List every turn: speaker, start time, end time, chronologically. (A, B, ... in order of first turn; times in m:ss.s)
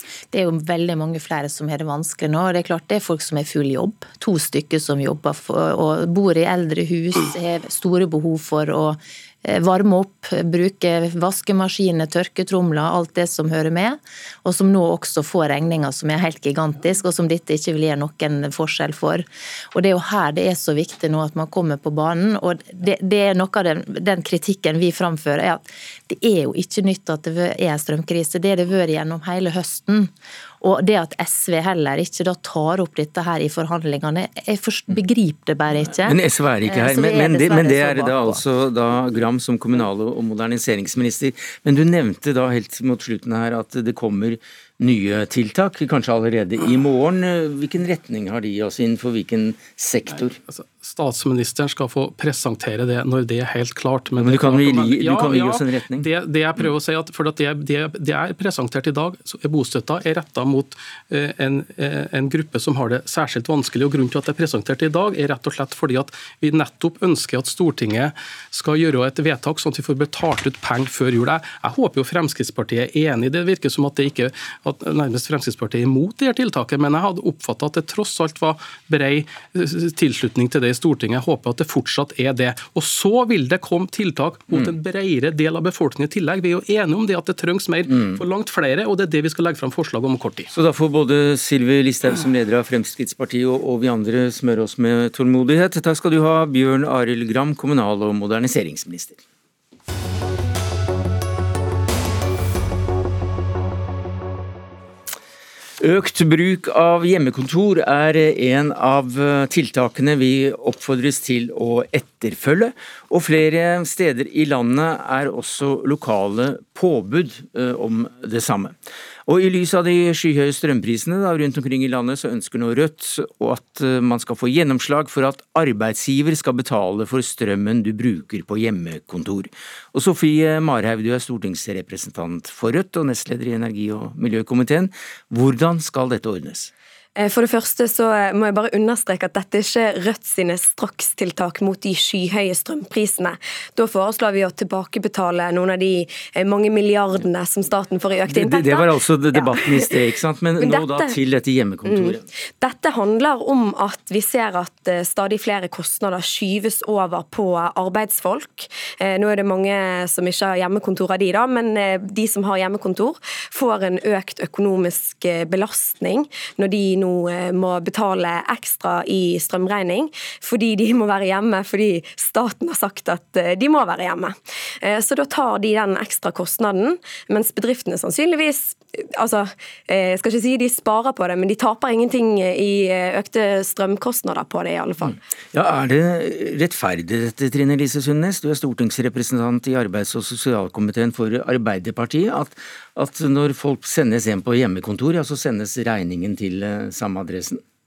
0:00.3-0:38.4 A
0:36.0-0:50.4 B
0:50.5-1:30.5 C
0:54.1-0:56.1 B
1:27.9-1:28.2 B
1:30.5-1:39.2 B
1:45.8-2:16.7 B
2:17.2-2:29.9 D
2:28.3-2:32.2 B
2:30.6-2:31.1 D
2:31.8-3:05.2 D
3:05.0-3:17.6 B